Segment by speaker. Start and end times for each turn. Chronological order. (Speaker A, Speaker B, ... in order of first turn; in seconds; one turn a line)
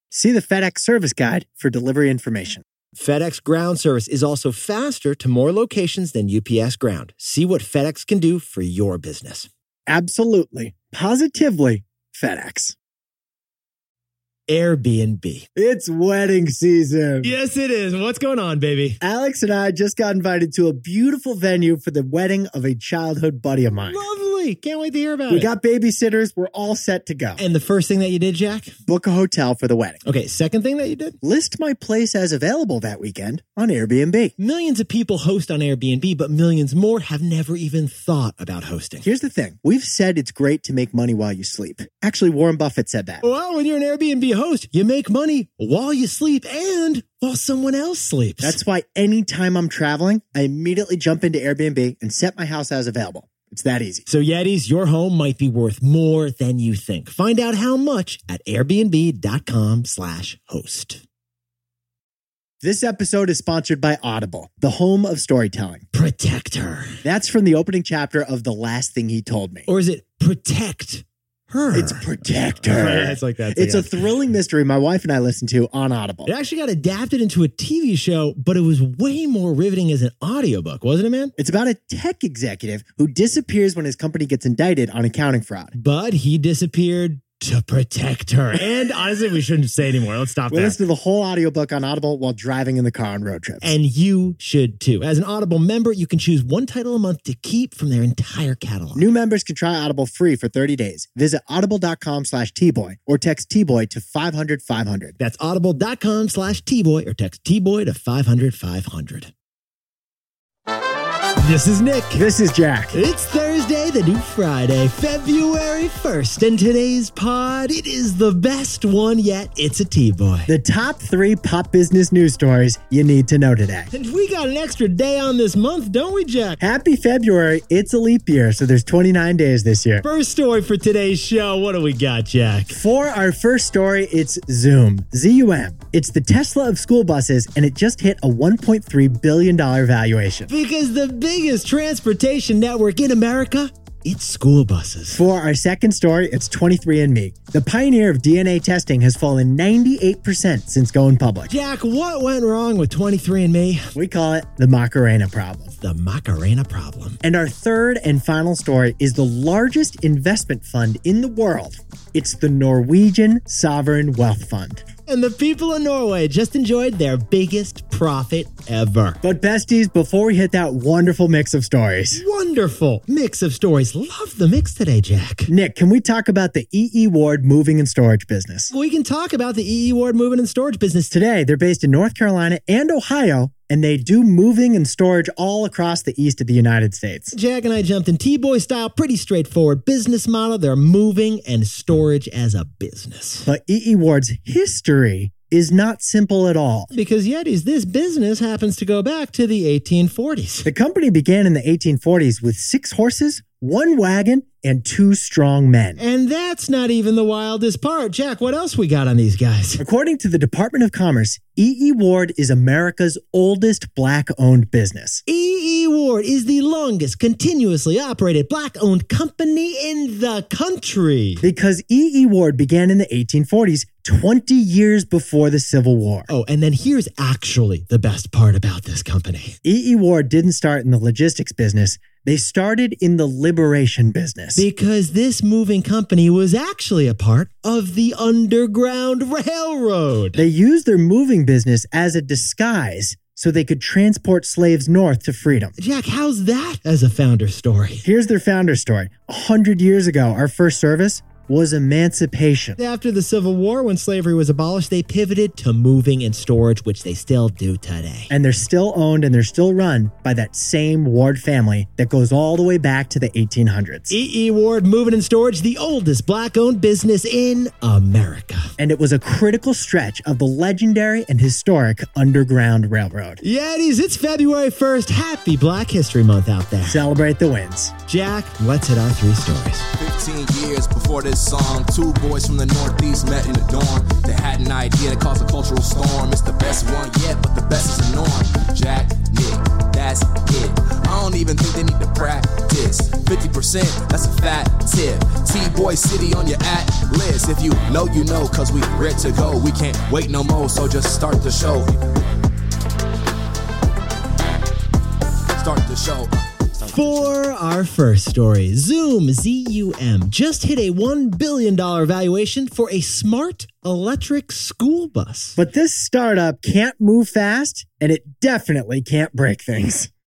Speaker A: 0.1-2.6
Speaker B: 3.0-9.5
Speaker A: 9.9-12.8
Speaker B: 14.5-15.5
Speaker A: 15.6-17.3
Speaker B: 17.2-19.0
Speaker A: 19.0-24.0
Speaker B: 23.8-25.5
Speaker A: 25.3-27.4
Speaker B: 27.4-28.8
Speaker A: 28.9-30.0
Speaker B: 30.1-31.2
Speaker A: 31.2-34.3
Speaker B: 34.4-39.1
Speaker A: 39.0-43.2
Speaker B: 43.2-48.6
Speaker A: 48.4-54.0
Speaker B: 54.1-61.0
Speaker A: 62.6-65.8
Speaker B: 65.9-67.0
Speaker A: 67.0-69.7
Speaker B: 69.7-74.1
Speaker A: 71.7-76.3
Speaker B: 76.3-81.3
Speaker A: 81.4-85.7
Speaker B: 85.8-90.8
Speaker A: 90.5-93.7
Speaker B: 93.6-99.1
Speaker A: 99.0-105.2
Speaker B: 105.2-109.3
Speaker B: 111.4-112.3
Speaker A: 112.2-113.0
Speaker B: 112.9-120.5
Speaker A: 120.5-123.9
Speaker B: 123.9-126.6
Speaker A: 126.6-130.1
Speaker B: 130.0-132.8
Speaker A: 132.7-140.5
Speaker B: 140.5-145.2
Speaker A: 145.1-151.5
Speaker B: 151.5-153.9
Speaker A: 153.9-155.7
Speaker B: 155.8-157.2
Speaker A: 157.2-164.9
Speaker B: 165.1-169.2
Speaker A: 169.2-172.2
Speaker B: 172.1-175.5
Speaker A: 175.5-178.7
Speaker B: 178.7-181.1
Speaker A: 181.1-187.3
Speaker B: 187.3-193.5
Speaker A: 193.5-196.9
Speaker B: 196.9-200.7
Speaker A: 200.7-206.0
Speaker B: 206.0-209.8
Speaker A: 209.8-215.2
Speaker B: 215.3-221.4
Speaker A: 221.4-226.3
Speaker B: 226.3-229.6
Speaker A: 229.7-234.7
Speaker B: 234.6-240.4
Speaker A: 240.4-245.8
Speaker B: 245.8-248.1
Speaker A: 248.1-252.8
Speaker B: 252.8-258.3
Speaker A: 258.3-264.1
Speaker B: 264.1-268.7
Speaker A: 268.8-273.4
Speaker B: 273.4-277.0
Speaker A: 276.9-277.9
Speaker B: 278.1-279.9
Speaker C: 280.0-302.2
Speaker C: 305.5-307.3
Speaker B: 306.9-315.6
Speaker A: 315.6-320.1